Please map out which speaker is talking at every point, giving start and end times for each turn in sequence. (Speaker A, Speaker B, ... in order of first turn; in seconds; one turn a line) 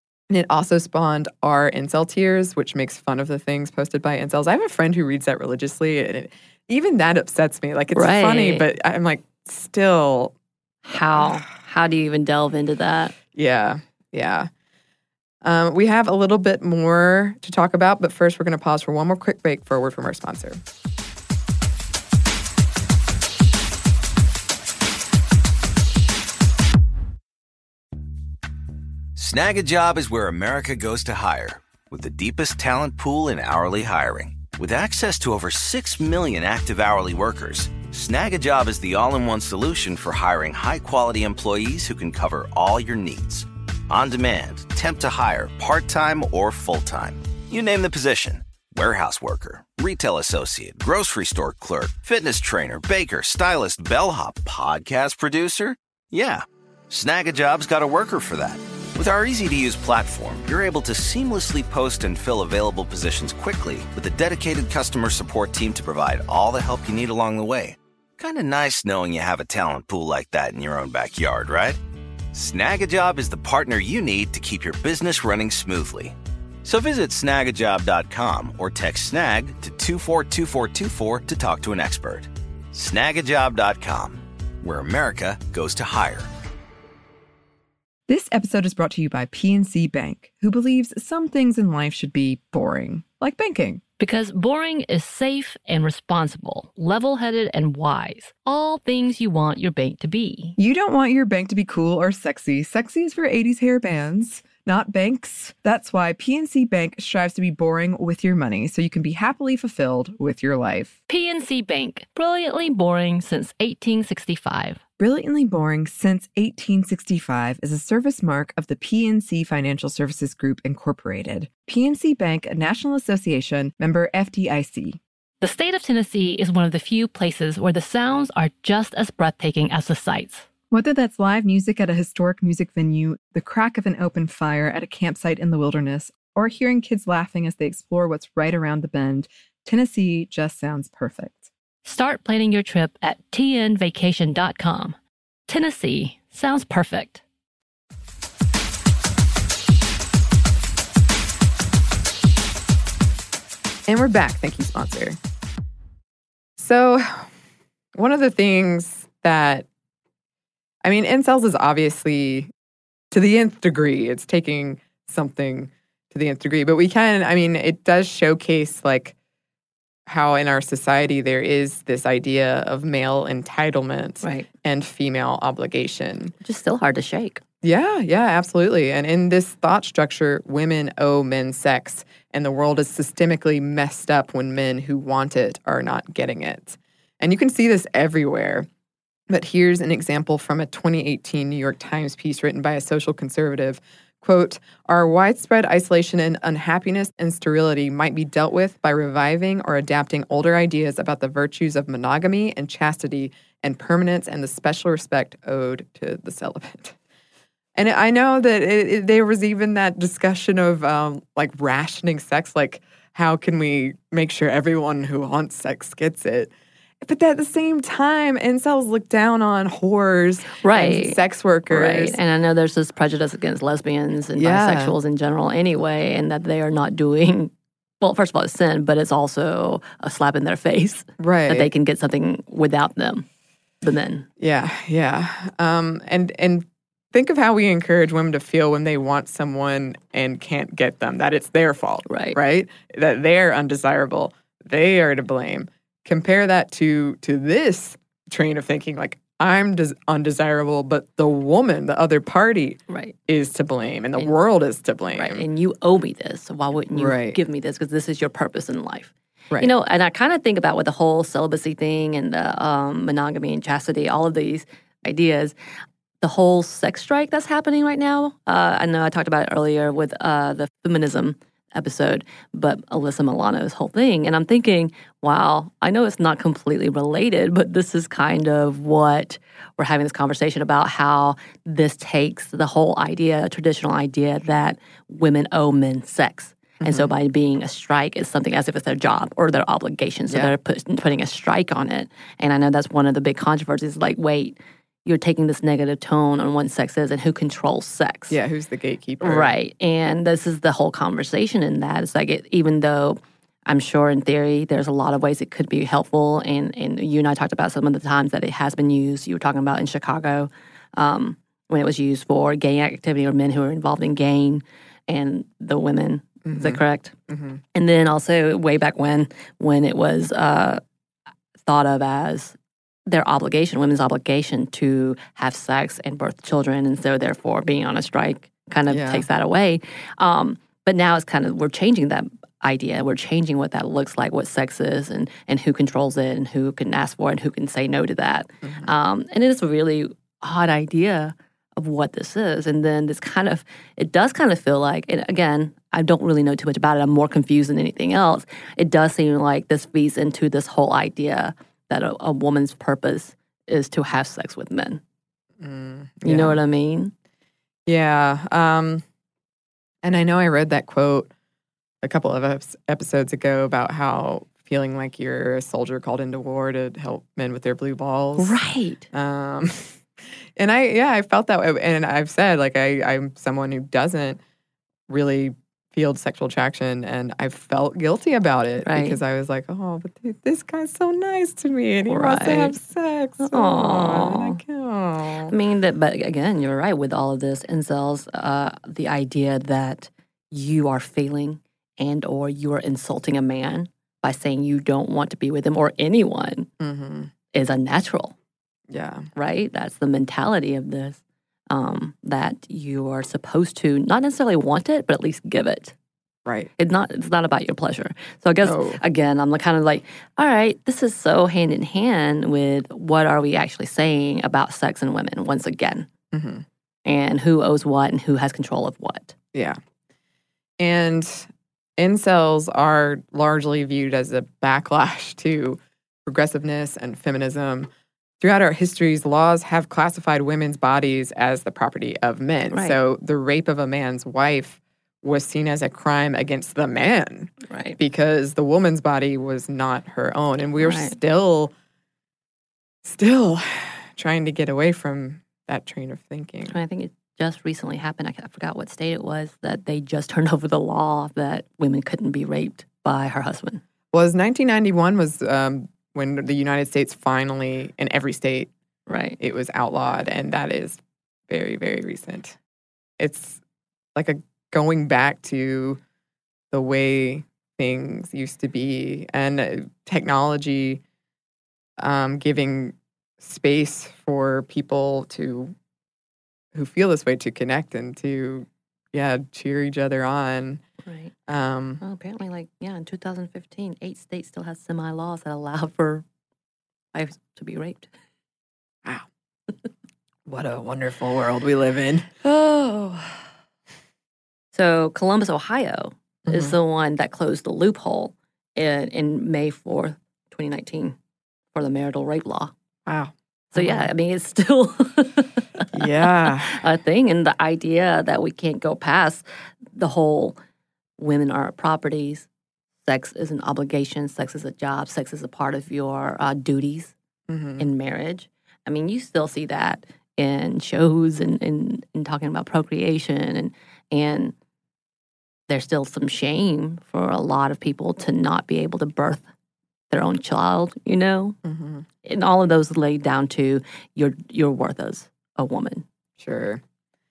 Speaker A: 0.3-10.3
Speaker B: 7.9-8.7
Speaker B: 10.9-13.1
Speaker A: 13.3-14.5
Speaker A: 15.4-20.6
Speaker C: 29.2-71.8
Speaker C: 72.3-86.3
Speaker D: 88.1-93.8
Speaker B: 94.0-100.6
Speaker D: 100.6-111.0
Speaker B: 111.1-114.8
Speaker D: 115.0-125.0
Speaker B: 125.4-130.5
Speaker D: 130.7-141.5
Speaker B: 141.8-145.0
Speaker B: 145.5-147.2
Speaker A: 153.9-155.2
Speaker A: 156.6-157.3
Speaker A: 158.0-159.7
Speaker A: 160.8-162.5
Speaker A: 163.1-169.1
Speaker A: 170.1-176.3
Speaker B: 174.2-174.5
Speaker B: 176.4-177.4
Speaker A: 177.6-188.7
Speaker A: 189.3-206.9
Speaker A: 207.8-222.2
Speaker B: 220.6-233.3
Speaker A: 224.4-225.0
Speaker A: 231.2-231.7
Speaker B: 233.8-234.3
Speaker A: 234.4-255.4
Speaker B: 242.1-242.4
Speaker B: 252.9-253.1
Speaker B: 255.1-265.5
Speaker A: 256.9-257.4
Speaker B: 266.2-298.4
Speaker A: 286.8-287.1
Speaker A: 298.3-299.5
Speaker B: 299.2-317.1
Speaker A: 316.4-317.6
Speaker B: 317.8-320.8
Speaker B: 321.6-322.6
Speaker B: 323.1-355.0
Speaker A: 328.9-329.2
Speaker A: 338.6-338.9
Speaker A: 355.6-356.6
Speaker B: 356.2-357.1
Speaker A: 357.9-359.0
Speaker A: 360.0-361.3
Speaker A: 362.0-368.6
Speaker B: 368.4-369.1
Speaker A: 369.1-370.0
Speaker A: 370.6-374.4
Speaker A: 375.1-385.5
Speaker B: 378.8-379.2
Speaker B: 382.1-382.8
Speaker B: 383.4-384.6
Speaker B: 385.5-396.7
Speaker A: 396.8-397.3
Speaker B: 397.5-398.3
Speaker A: 398.9-399.3
Speaker B: 399.4-405.9
Speaker A: 406.5-406.7
Speaker B: 406.8-416.1
Speaker A: 408.6-409.0
Speaker A: 416.3-416.6
Speaker B: 417.1-419.3
Speaker A: 419.5-419.8
Speaker A: 420.8-427.9
Speaker A: 428.4-441.7
Speaker B: 432.7-433.0
Speaker B: 437.7-438.0
Speaker B: 440.8-441.2
Speaker A: 443.1-446.8
Speaker B: 446.7-453.8
Speaker A: 454.1-458.7
Speaker B: 459.1-459.4
Speaker A: 459.4-462.6
Speaker A: 463.2-463.6
Speaker A: 464.1-466.0
Speaker A: 466.7-471.0
Speaker A: 472.0-475.7
Speaker A: 476.7-480.8
Speaker B: 481.0-481.3
Speaker A: 481.5-482.0
Speaker B: 482.0-486.2
Speaker B: 487.1-488.1
Speaker A: 490.5-492.3
Speaker B: 492.4-493.5
Speaker B: 494.7-501.2
Speaker A: 496.5-496.8
Speaker B: 501.7-502.7
Speaker A: 503.1-504.1
Speaker B: 503.7-510.6
Speaker A: 505.9-506.8
Speaker B: 511.2-512.5
Speaker B: 513.0-517.1
Speaker A: 517.5-517.9
Speaker B: 517.8-524.5
Speaker B: 525.7-529.4
Speaker B: 530.1-531.6
Speaker A: 531.6-532.0
Speaker B: 532.2-536.0
Speaker A: 536.4-536.8